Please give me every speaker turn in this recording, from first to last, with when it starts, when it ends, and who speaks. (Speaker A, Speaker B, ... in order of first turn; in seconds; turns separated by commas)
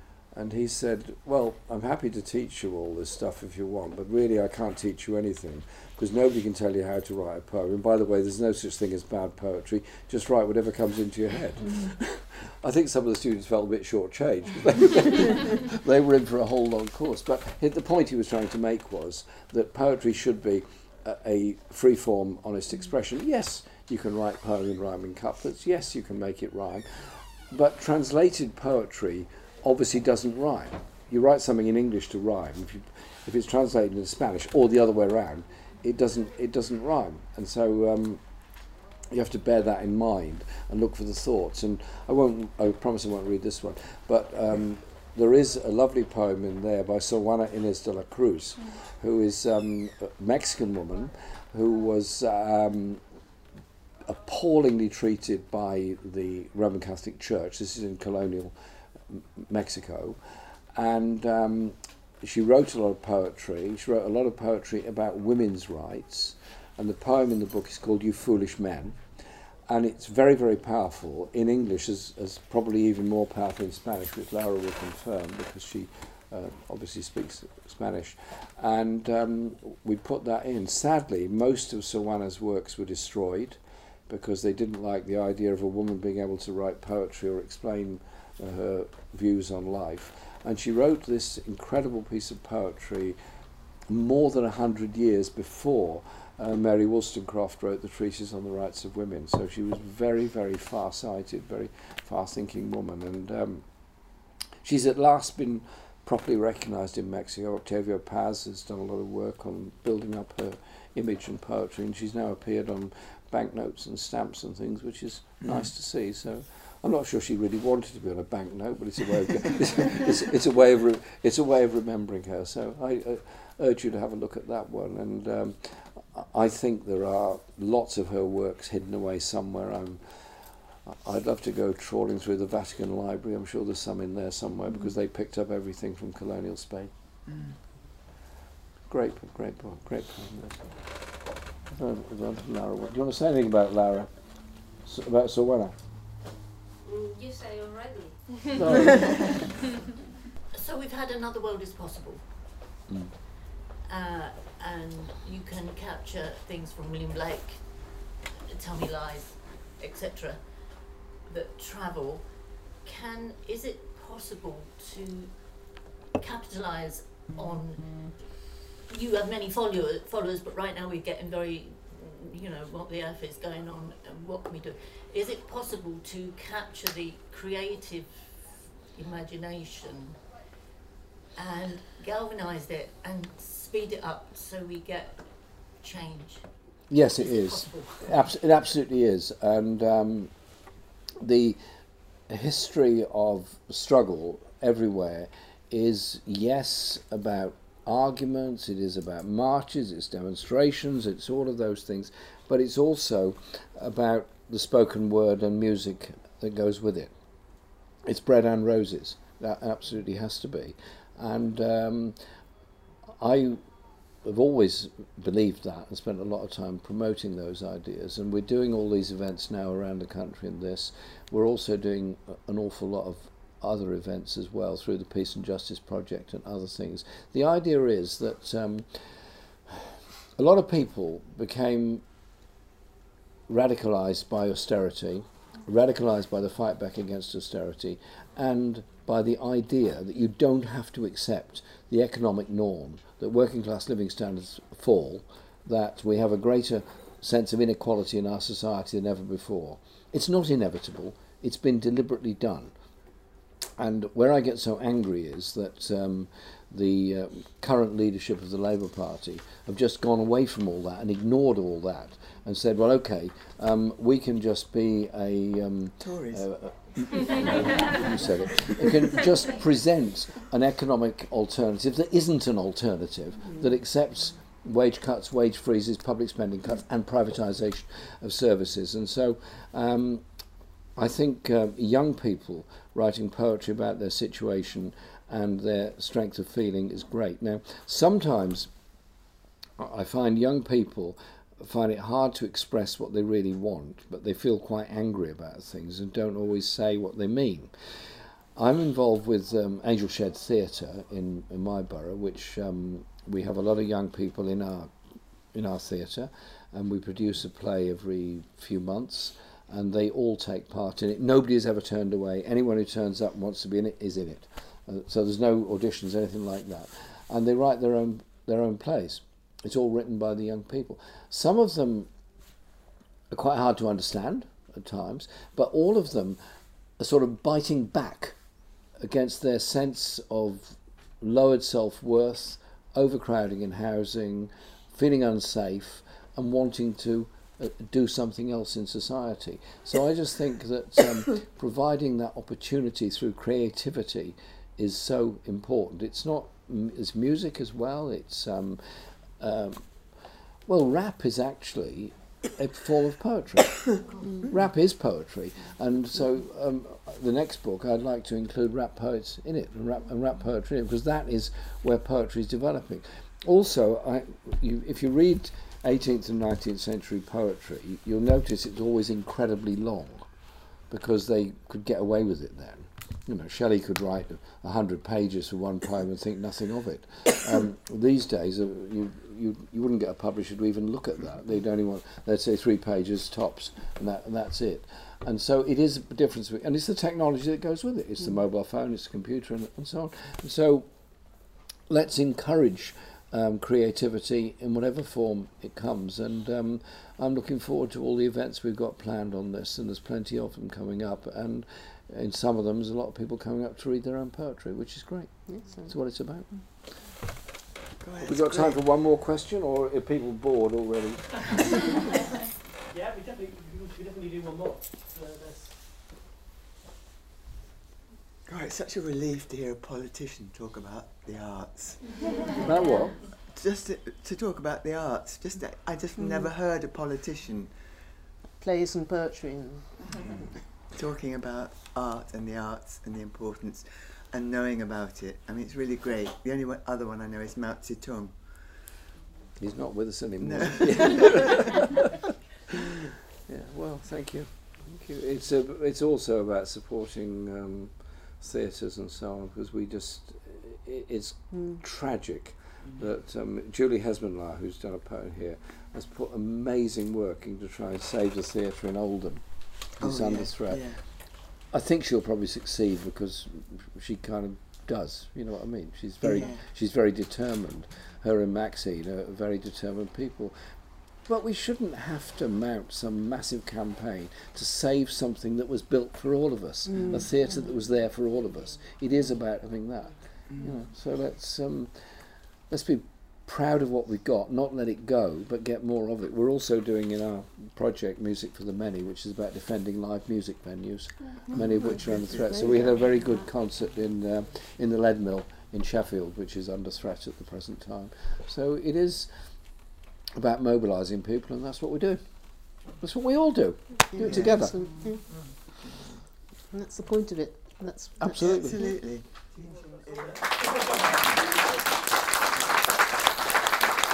Speaker A: 0.3-38.2, Speaker A: 39.1-53.0, Speaker A: 54.1-58.5, Speaker A: 59.1-60.2, Speaker A: 60.7-69.1, Speaker A: 69.7-93.2, Speaker A: 93.9-103.7, Speaker A: 104.6-136.9, Speaker B: 137.3-137.6, Speaker A: 138.9-140.8, Speaker A: 141.7-144.1, Speaker A: 144.8-145.8, Speaker C: 146.9-148.1, Speaker A: 148.6-149.4, Speaker C: 150.5-152.5, Speaker A: 152.9-153.2, Speaker C: 153.8-160.5, Speaker C: 161.2-180.3, Speaker C: 181.3-186.5, Speaker A: 186.9-190.3, Speaker C: 187.2-188.2, Speaker A: 191.2-191.6, Speaker A: 192.3-207.1, Speaker A: 208.1-212.2, Speaker A: 213.2-213.6, Speaker A: 214.2-232.0, Speaker A: 233.5-252.7, Speaker A: 253.8-280.2, Speaker B: 266.0-266.5, Speaker A: 281.0-288.7, Speaker A: 289.8-297.7, Speaker A: 298.6-304.9, Speaker A: 305.5-322.1, Speaker A: 323.3-326.4, Speaker A: 327.0-328.4, Speaker A: 329.0-349.9, Speaker A: 350.7-370.3, Speaker A: 370.9-390.9, Speaker A: 391.9-406.7, Speaker D: 405.5-406.0, Speaker B: 408.0-408.8, Speaker A: 408.2-412.0, Speaker E: 412.9-415.8, Speaker B: 418.5-422.6, Speaker A: 422.6-423.3, Speaker B: 423.4-427.7, Speaker D: 428.6-430.0, Speaker B: 430.9-438.4, Speaker A: 439.6-441.9, Speaker B: 440.4-441.6, Speaker A: 443.5-470.6, Speaker D: 451.5-451.8, Speaker B: 460.0-461.0, Speaker B: 466.2-466.6, Speaker A: 471.2-499.3, Speaker D: 476.9-477.3, Speaker D: 492.3-493.0, Speaker A: 500.4-505.0, Speaker B: 504.1-505.3, Speaker D: 504.2-505.5, Speaker D: 506.7-508.8, Speaker A: 508.2-508.8, Speaker B: 508.3-510.4, Speaker E: 509.6-511.8